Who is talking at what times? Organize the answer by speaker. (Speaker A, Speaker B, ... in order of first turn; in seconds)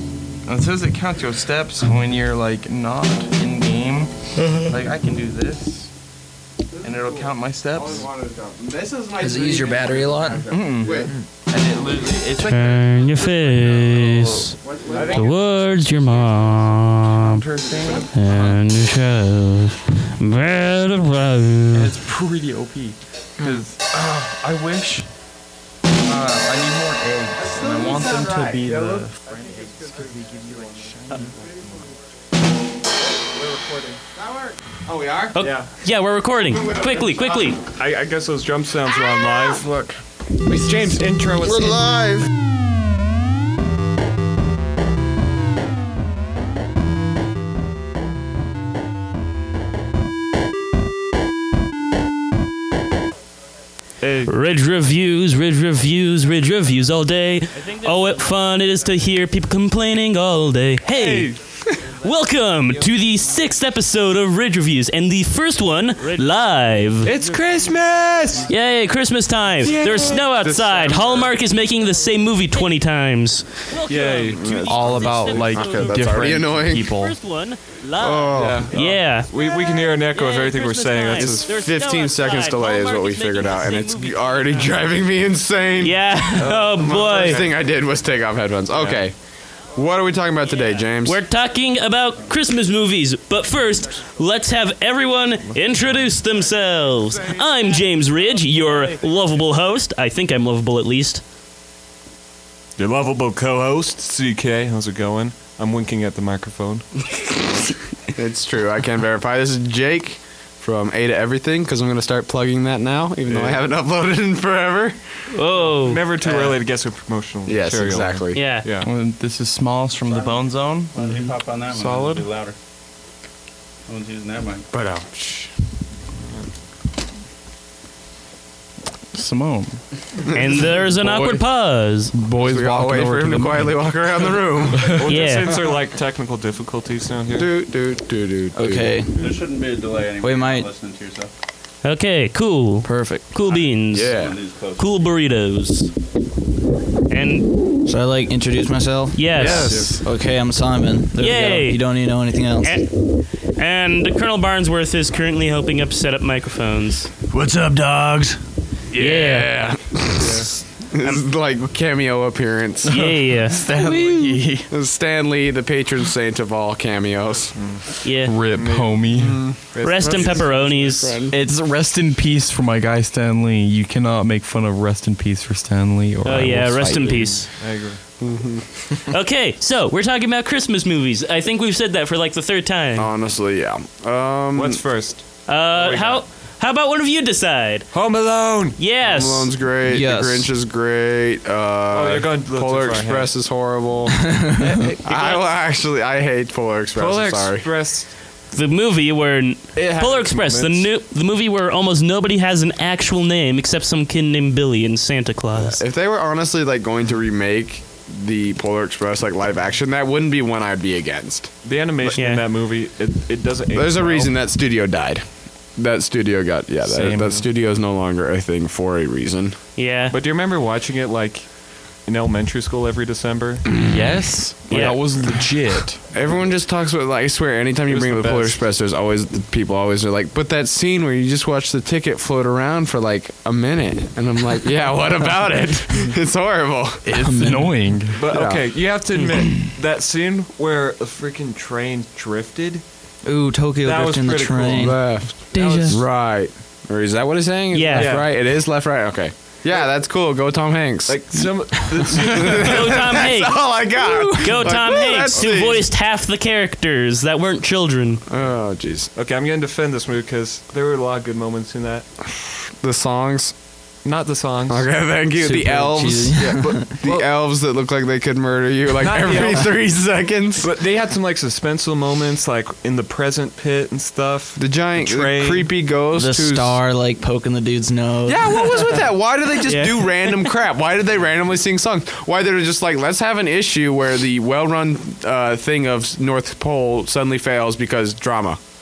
Speaker A: 0.5-5.9, 6.8-8.1, 10.5-14.6, 15.5-18.6, 21.7-25.1, 26.0-31.5, 39.5-40.0, 74.7-77.2, 118.8-122.3, 129.1-129.8, 131.0-131.4, 132.1-133.9, 149.4-150.0, 162.9-164.7, 168.2-169.6, 171.3-177.3, 216.9-217.4, 223.8-226.0, 237.1-238.2, 245.5-245.8
Speaker B: 6.7-11.1, 14.6-15.4, 17.6-18.1, 27.4-31.8, 33.1-35.4, 36.5-37.5, 40.5-42.3, 70.4-71.3, 74.3-76.9, 78.0-78.7, 81.2-89.2, 89.7-91.2, 108.1-115.0, 116.2-116.6, 117.5-118.5, 124.7-125.5, 132.4-135.1, 137.3-139.3, 143.9-144.4, 158.9-163.1, 163.8-164.1, 164.7-167.6, 169.2-171.4, 178.2-179.1, 183.0-184.8, 189.0-194.3, 195.0-197.7, 205.6-212.2, 213.8-219.6, 226.1-237.5, 238.3-238.6, 244.8-251.2, 252.1-255.8, 258.3-259.1, 262.8-263.5, 264.7-270.7, 274.6-276.7, 278.2-288.6
Speaker C: 9.2-11.3, 138.6-139.1, 140.2-140.7, 142.8-143.3, 147.9-152.8, 157.3-158.4, 189.9-190.5, 194.2-194.7, 237.2-237.8, 243.2-245.0, 254.0-254.5, 265.4-266.9, 276.1-279.1
Speaker D: 12.3-14.6, 15.1-17.4, 18.1-21.9, 35.3-37.6, 54.2-67.2, 68.5-84.8, 85.8-87.4, 90.6-101.2, 115.3-116.0, 118.3-118.7, 130.3-132.1, 135.1-135.5, 141.8-144.2, 144.8-145.9, 147.1-147.6, 149.1-149.8, 151.2-151.8, 152.6-157.1, 158.9-159.6, 162.9-163.7, 168.0-168.3, 169.8-171.2, 176.2-177.5, 179.1-183.1, 185.5-187.9, 188.8-189.5, 198.5-205.8, 212.2-212.4, 219.8-220.1, 224.7-225.0, 245.5-246.0, 247.7-248.1, 252.6-253.8, 254.4-258.2, 279.7-280.0
Speaker E: 14.9-15.5, 35.4-35.7, 37.6-39.7, 40.5-41.8, 54.0-54.3, 60.9-61.9, 67.0-68.5, 69.6-70.3, 73.8-74.6, 78.3-81.5, 86.4-87.5, 88.7-89.0, 102.8-106.9, 113.3-113.7, 115.8-118.9, 126.2-126.5, 134.8-137.5, 149.4-150.0, 160.2-160.5, 167.6-167.8, 168.6-171.1, 177.6-178.0, 184.6-186.2, 187.9-188.8, 191.9-193.3, 194.6-195.5, 197.0-198.1, 199.8-200.9, 211.6-214.3, 220.1-223.8, 224.7-225.0, 227.9-228.6, 238.1-242.8, 243.8-246.0, 248.0-248.3, 251.1-253.1, 259.1-262.1, 264.0-264.9, 266.4-267.3, 269.0-269.8, 270.6-275.8
Speaker F: 120.1-120.4, 120.9-122.5, 123.9-124.7, 139.2-141.3, 144.1-144.9